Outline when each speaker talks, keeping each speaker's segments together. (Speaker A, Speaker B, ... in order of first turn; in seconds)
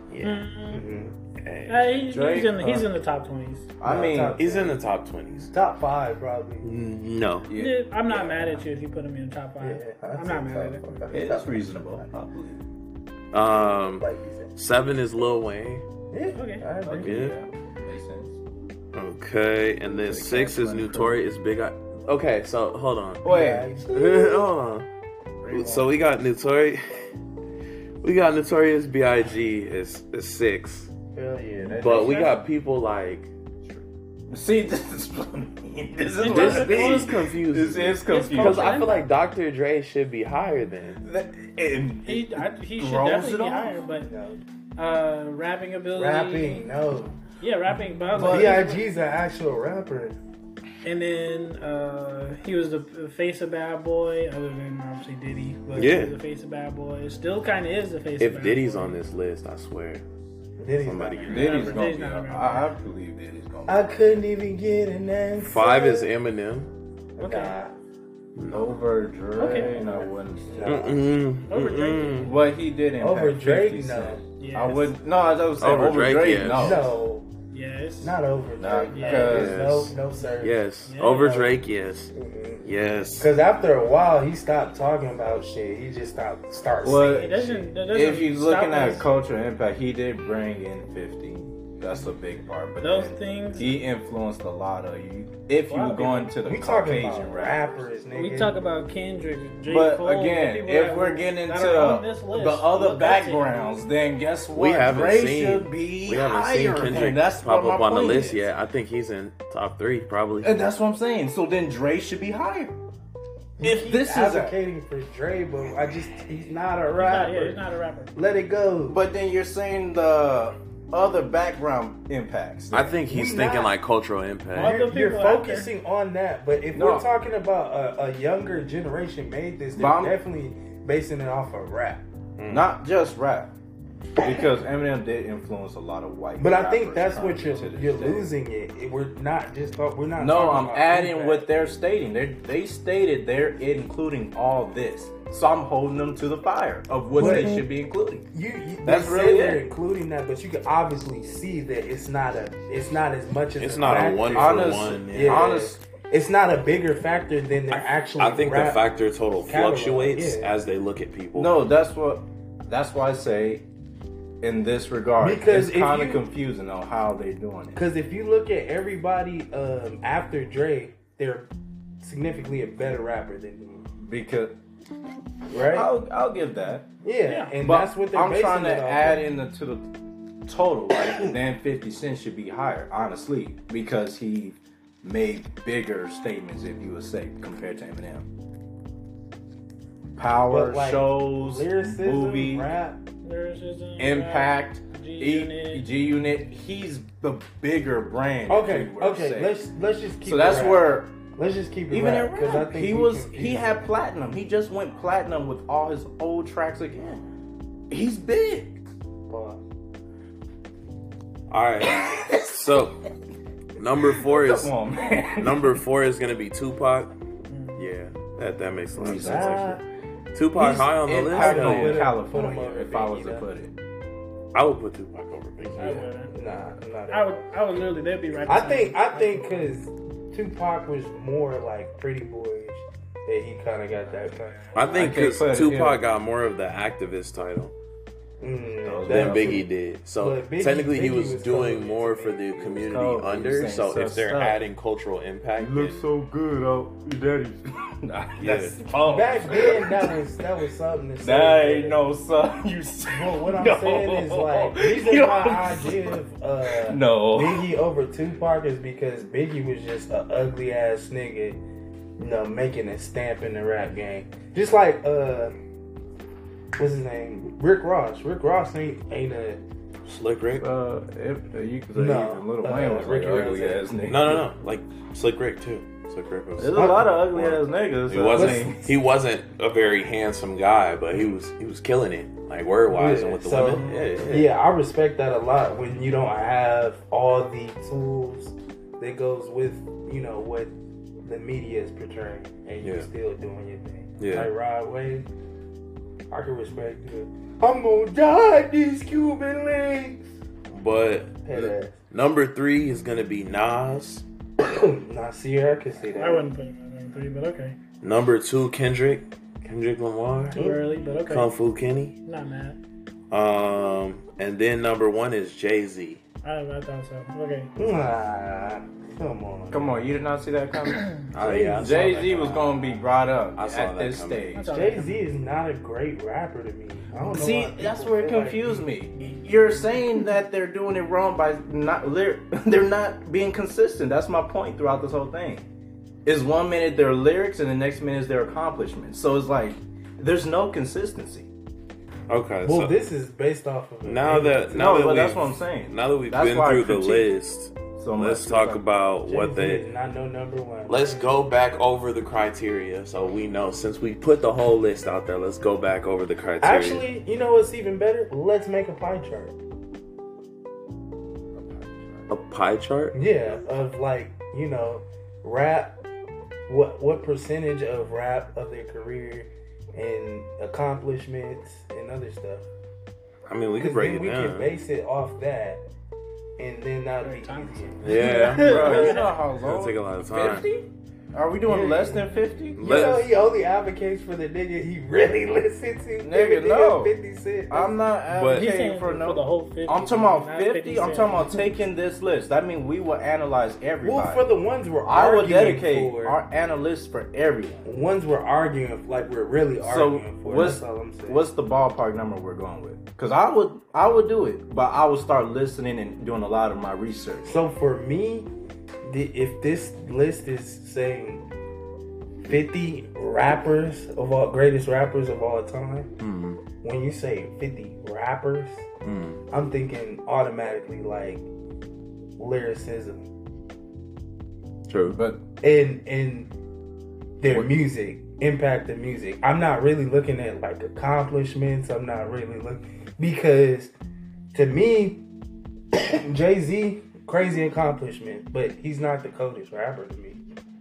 Speaker A: 0.1-0.4, 1.4-1.9, 4.4-5.5, 6.6-7.5, 13.3-15.9, 17.0-17.4, 18.9-24.9, 25.5-27.1, 28.0-30.9, 31.8-33.3, 36.2-41.0, 55.8-56.2, 58.2-60.0, 60.8-61.8, 65.4-66.7, 68.4-68.7, 70.6-72.4, 75.6-76.9, 79.3-82.1, 82.6-83.3, 104.5-110.6, 122.7-124.8, 132.4-132.7, 153.6-155.6, 157.7-161.6, 211.5-213.1, 213.8-214.7, 215.4-217.1, 217.8-219.8, 220.3-222.1, 224.5-226.0, 234.8-237.7, 239.1-246.0, 248.4-248.8, 270.1-270.6, 274.1-284.5, 294.2-294.5, 300.7-304.2, 308.0-310.6, 311.3-312.1, 313.3-316.2, 321.3-322.9, 323.5-324.5, 342.3-342.9, 344.0-349.9, 350.9-357.1, 362.3-363.2, 373.5-374.7, 378.0-380.7, 382.8-383.3, 388.3-388.7, 416.2-416.6, 419.0-419.4, 424.9-425.2
Speaker B: 0.2-0.9, 1.7-3.7, 7.5-11.0, 16.3-16.8, 36.2-37.1, 38.1-39.1, 42.1-44.1, 44.8-46.7, 47.4-48.8, 50.8-59.0, 61.3-62.7, 67.2-67.5, 69.4-69.8, 71.5-72.4, 74.4-74.9, 77.5-78.2, 78.9-79.4, 80.8-81.3, 87.0-89.1, 92.8-93.8, 95.7-96.3, 98.1-103.8, 117.0-118.2, 124.5-125.7, 147.2-147.6, 177.3-177.6, 193.2-195.9, 217.5-217.8, 225.8-226.3, 227.1-229.7, 306.2-307.8, 310.4-311.5, 312.3-312.8, 316.4-317.7, 324.5-325.2, 377.2-379.4, 388.5-391.6
Speaker C: 0.7-1.1, 3.9-4.8, 5.5-6.7, 8.1-8.6, 9.6-12.1, 13.9-14.5, 16.1-17.2, 23.2-24.5, 31.1-32.3, 44.0-44.4, 45.9-47.2, 48.1-50.1, 60.6-61.5, 63.7-66.1, 67.2-67.7, 69.5-71.0, 73.0-74.2, 76.5-77.3, 78.0-87.7, 96.4-98.5, 113.6-117.6, 118.2-119.0, 123.0-123.8, 124.5-132.0, 136.4-141.5, 147.2-147.6, 148.3-158.9, 159.4-160.5, 165.2-166.2, 167.8-171.5, 172.0-173.8, 175.5-175.9, 177.0-179.2, 190.5-193.0, 198.5-203.9, 209.3-209.6, 219.0-219.8, 221.3-223.4, 225.8-227.4, 228.4-235.1, 238.4-242.4, 249.1-252.0, 253.1-261.6, 262.2-265.6, 266.8-269.6, 271.9-274.4, 276.8-277.1, 278.3-278.9, 282.9-290.7, 291.2-295.3, 296.3-300.2, 301.4-301.9, 304.6-306.5, 310.6-310.8, 317.8-320.1, 321.4-321.9, 324.7-328.9, 342.6-344.9, 349.3-351.3, 356.6-359.6, 363.1-366.0, 366.7-372.6, 373.8-375.8, 376.6-379.1, 381.6-388.0, 394.0-396.4, 397.9-401.5, 407.4-408.5, 409.0-411.4, 412.4-416.1, 416.8-418.9, 419.5-421.4, 422.4-423.3, 425.6-426.5, 427.4-433.9, 434.5-435.2, 435.9-440.4
Speaker D: 2.1-2.9, 3.8-4.4, 7.5-7.8, 11.1-12.6, 16.8-18.4, 20.1-21.2, 23.2-23.7, 25.4-25.9, 31.6-32.4, 33.6-38.7, 41.0-43.8, 48.1-48.6, 61.3-63.9, 68.5-71.0, 72.2-76.9, 78.6-79.8, 86.8-87.4, 87.9-97.7, 99.7-108.4, 110.4-112.8, 113.6-114.5, 118.9-123.0, 126.7-127.1, 129.7-130.2, 132.5-133.5, 134.2-138.3, 140.2-148.3, 148.9-149.6, 153.9-155.8, 161.3-163.6, 164.4-167.8, 174.0-174.6, 175.7-176.9, 177.6-179.9, 180.5-188.3, 190.2-192.7, 194.0-199.5, 200.2-201.1, 201.9-207.2, 207.9-208.9, 211.9-212.5, 214.0-215.8, 219.0-219.7, 220.6-223.8, 234.9-236.0, 238.8-239.6, 242.6-244.6, 245.6-250.2, 251.2-256.1, 256.7-257.7, 270.6-274.4, 276.6-278.8, 319.7-324.7, 327.2-335.7, 336.2-341.5, 344.7-347.3, 347.9-348.8, 361.6-362.3, 378.6-383.2, 386.2-387.1, 387.7-394.4, 395.1-397.9, 399.8-407.6, 425.1-425.4